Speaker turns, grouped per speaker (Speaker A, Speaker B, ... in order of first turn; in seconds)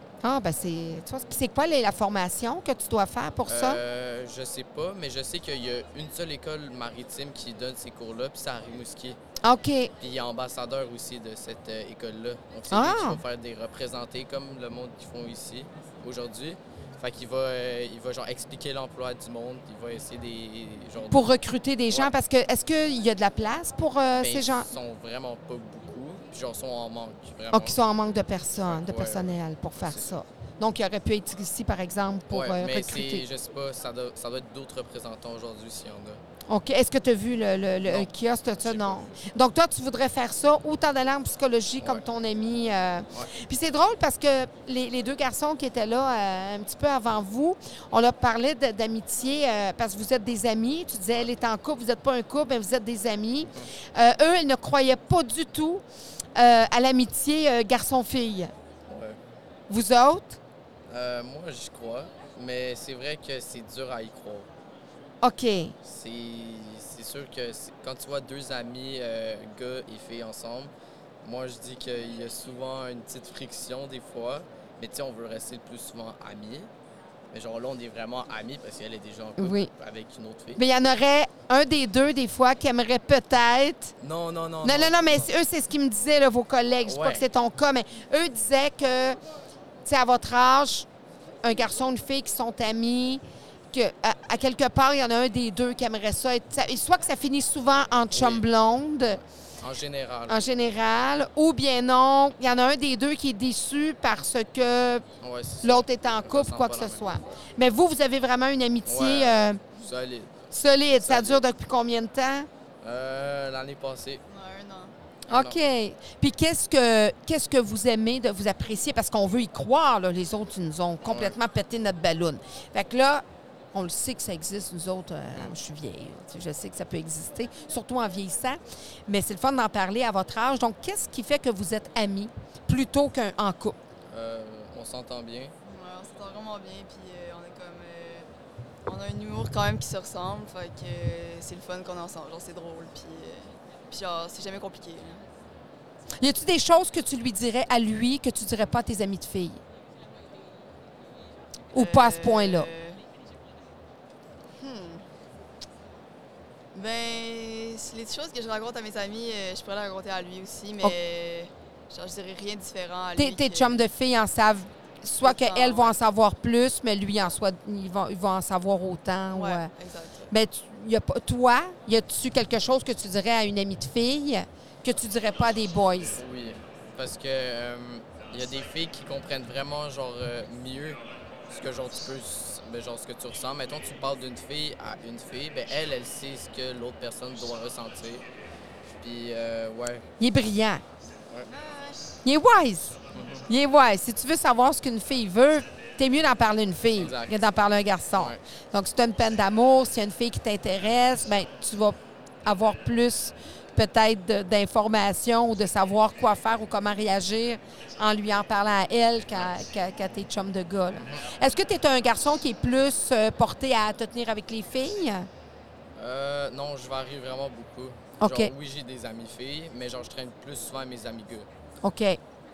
Speaker A: 0.2-3.8, 9.4-9.9, 12.7-13.2, 21.1-24.7, 27.5-33.2, 36.5-55.8, 56.4-58.5, 59.7-60.4, 65.2-65.8, 79.4-79.7, 80.5-83.9, 84.6-89.2, 89.8-90.9, 91.4-99.2, 100.3-105.0, 105.6-109.6, 110.5-112.5, 115.3-133.8, 146.2-149.6, 151.7-152.7, 163.2-169.7, 170.3-176.2, 190.2-190.8, 192.2-215.3, 218.2-218.5, 221.8-222.2
Speaker B: 3.5-9.2, 10.0-21.3, 24.2-27.8, 28.6-30.1, 32.3-36.2, 38.6-39.1, 58.9-59.2, 60.9-64.5, 65.8-70.7, 71.2-76.7, 77.3-80.6, 84.0-85.3, 86.8-87.2, 98.1-98.4, 99.1-100.4, 105.2-107.3, 108.8-111.4, 112.8-114.2, 115.3-115.5, 121.0-121.3, 134.1-135.5, 176.1-188.2, 188.9-190.1, 193.1-193.4, 197.0-197.4, 198.1-198.4, 216.0-221.5
Speaker C: 114.3-114.9, 135.6-138.3, 138.8-145.2, 151.7-153.0, 154.6-155.0, 156.7-163.8, 165.2-166.0, 169.3-170.3